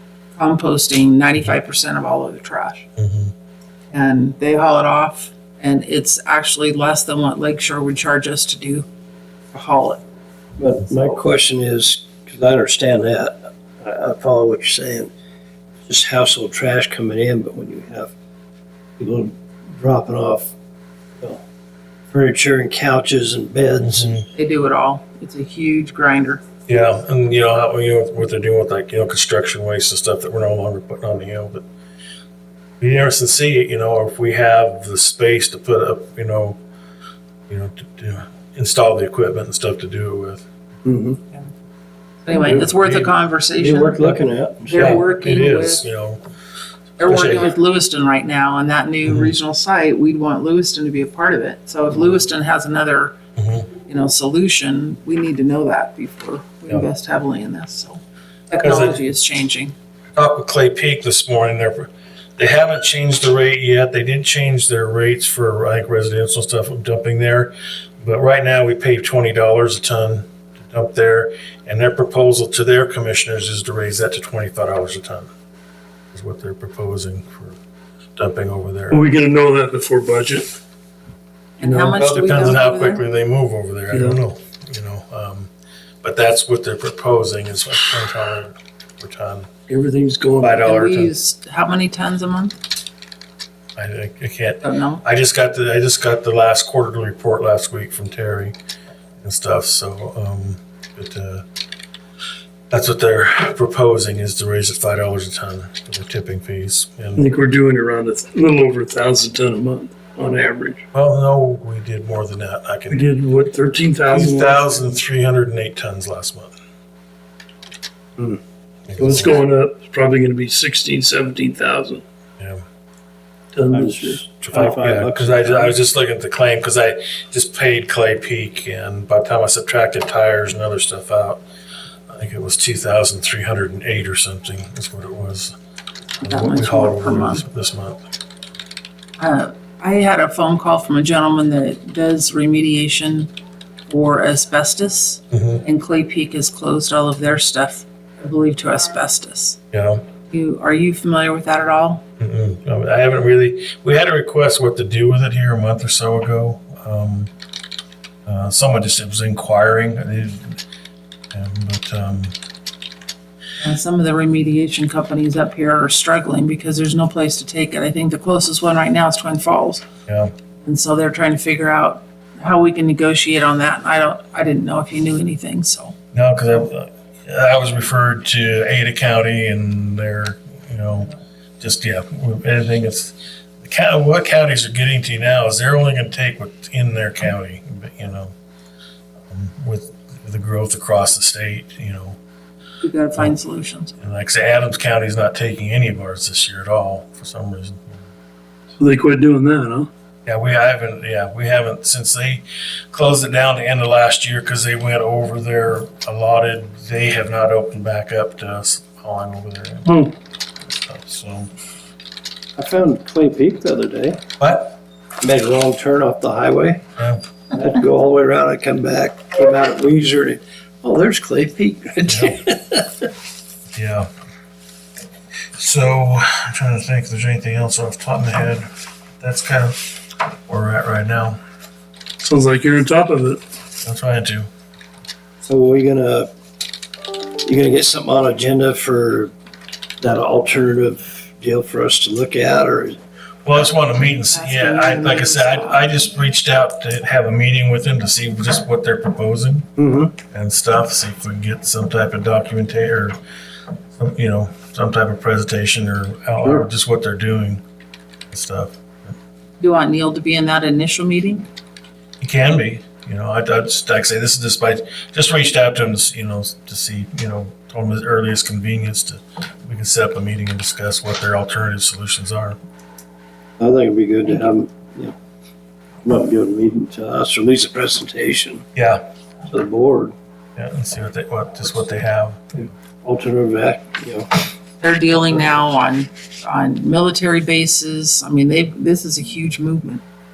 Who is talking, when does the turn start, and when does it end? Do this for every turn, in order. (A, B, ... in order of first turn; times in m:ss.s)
0:00.4-0:02.9 A
0:03.0-0:03.3 B
0:03.9-0:08.9 A
0:09.5-0:10.0 A
0:10.6-0:15.1 C
0:15.8-0:18.1 C
0:19.0-0:20.5 C
0:22.1-0:24.2 C
0:23.8-0:24.3 B
0:24.3-0:26.4 A
0:26.7-0:31.7 B
0:32.8-0:36.6 B
0:37.5-0:40.5 B
0:40.8-0:41.2 C
0:42.2-0:44.2 A
0:42.4-0:43.2 B
0:43.6-0:44.8 C
0:44.7-0:45.8 A
0:44.8-0:46.2 B
0:47.0-0:53.2 A
0:47.0-0:47.5 B
0:49.0-0:49.3 B
0:53.4-0:53.7 B
0:53.8-0:59.7 A
0:58.6-0:59.0 B
1:00.1-1:15.3 B
1:16.1-1:17.6 B
1:18.2-1:19.0 B
1:18.9-1:20.5 D
1:21.6-1:23.0 A
1:21.6-1:22.0 D
1:21.9-1:25.5 B
1:23.9-1:24.2 D
1:26.0-1:29.5 B
1:29.7-1:30.7 D
1:30.4-1:31.1 B
1:30.6-1:32.6 A
1:33.8-1:38.6 B
1:34.6-1:35.0 A
1:39.2-1:41.4 B
1:42.7-1:47.2 B
1:47.2-1:50.8 D
1:50.9-1:53.1 B
1:52.9-1:54.8 D
1:54.1-1:56.5 B
1:58.9-1:59.3 B
1:59.0-2:02.0 D
2:03.5-2:04.2 D
2:03.7-2:05.8 C
2:04.4-2:11.4 B
2:12.1-2:15.5 B
2:16.2-2:18.0 B
2:16.2-2:17.4 A
2:19.2-2:23.3 A
2:23.9-2:29.6 A
2:25.3-2:25.6 B
2:29.7-2:30.0 B
2:30.3-2:32.0 A
2:32.2-2:37.3 B
2:38.3-2:40.6 B
2:41.3-2:42.4 B
2:43.6-2:49.8 A
2:50.1-2:50.3 B
2:50.6-2:56.0 A
2:56.1-3:08.3 B
3:09.3-3:12.2 B
3:12.8-3:13.9 A
3:14.0-3:18.1 B
3:18.8-3:19.9 D
3:20.3-3:29.9 B
3:29.9-3:30.2 D
3:30.6-3:31.5 B
3:32.6-3:34.2 C
3:34.4-3:34.8 B
3:35.2-3:36.8 C
3:37.0-3:37.2 B
3:37.5-3:43.1 C
3:42.0-3:42.4 B
3:43.7-3:44.1 B
3:45.6-3:51.4 B
3:52.2-3:53.4 D
3:53.8-3:54.5 B
3:55.4-3:56.3 C
3:57.4-3:59.3 C
4:00.0-4:03.0 C
4:03.4-4:13.2 B
4:04.3-4:06.0 A
4:09.8-4:10.2 C
4:13.9-4:17.6 B
4:16.4-4:16.7 C
4:18.3-4:19.2 B
4:19.6-4:21.5 A
4:22.2-4:32.6 B
4:33.6-4:35.1 C
4:36.0-4:38.6 C
4:38.8-4:39.0 B
4:39.5-4:40.1 C
4:40.6-4:42.6 B
4:43.0-4:44.3 C
4:44.8-4:50.0 A